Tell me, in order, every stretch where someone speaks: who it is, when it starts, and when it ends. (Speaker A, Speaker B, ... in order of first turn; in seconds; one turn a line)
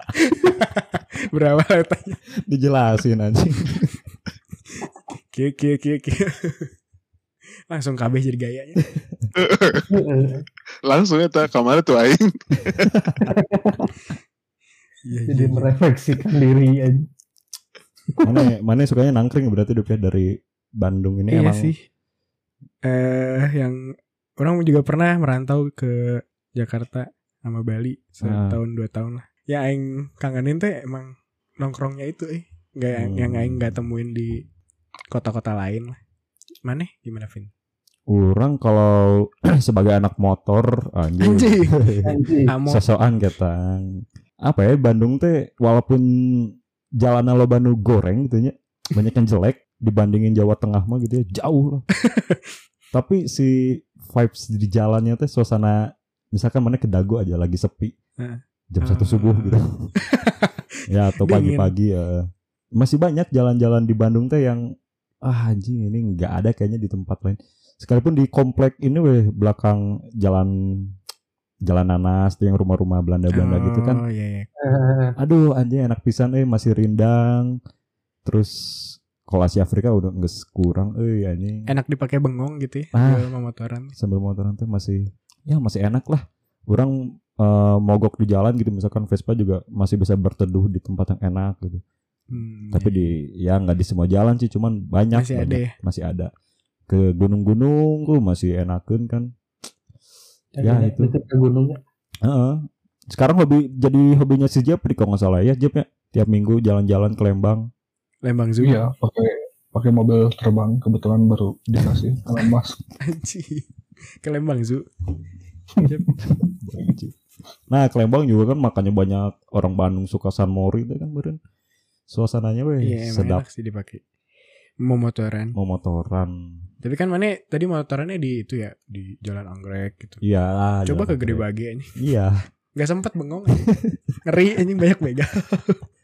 Speaker A: 0.1-2.2
Speaker B: 2.5-3.9
Speaker A: 5.3-6.7
Speaker A: 7.7-8.9
Speaker C: 9.4-9.9
Speaker D: 9.9-10.4
Speaker C: 10.8-12.9
Speaker D: 13.2-13.9
Speaker A: 15.1-15.7
Speaker D: 15.3-17.1
Speaker B: 18.2-21.7
Speaker A: 21.3-21.8
Speaker A: 22.8-23.8
Speaker A: 24.4-34.4
Speaker B: 28.2-28.6
Speaker B: 32.9-33.7
Speaker A: 35.1-36.0
Speaker A: 36.6-37.5
Speaker B: 38.1-51.9
Speaker A: 41.2-41.8
Speaker D: 42.0-42.5
Speaker A: 42.5-42.8
Speaker A: 52.0-52.4
Speaker B: 52.9-57.9
Speaker A: 58.2-60.5
Speaker B: 58.7-59.9
Speaker B: 60.9-62.2
Speaker A: 61.2-61.7
Speaker B: 62.8-64.6
Speaker B: 65.2-70.9
Speaker B: 71.7-74.0
Speaker A: 73.3-74.5
Speaker D: 74.6-75.2
Speaker B: 75.2-77.6
Speaker B: 78.2-81.7
Speaker A: 81.7-83.9
Speaker B: 82.9-83.3
Speaker B: 84.0-91.8
Speaker A: 92.3-93.1
Speaker B: 92.7-96.3
Speaker A: 95.1-95.7
Speaker B: 96.9-99.3
Speaker D: 100.6-101.8
Speaker B: 100.6-101.1
Speaker B: 102.2-107.7
Speaker A: 108.2-108.8
Speaker E: 108.6-112.8
Speaker A: 113.0-113.7
Speaker A: 114.2-114.9
Speaker E: 115.8-116.4
Speaker B: 116.6-117.1
Speaker B: 117.7-121.4
Speaker B: 122.1-123.4
Speaker A: 122.8-124.0
Speaker A: 124.8-125.6
Speaker B: 125.5-126.6
Speaker A: 126.8-130.2
Speaker B: 130.2-131.4
Speaker A: 130.9-131.9
Speaker B: 132.0-132.4
Speaker A: 132.8-133.7
Speaker B: 133.7-134.0
Speaker A: 134.2-135.8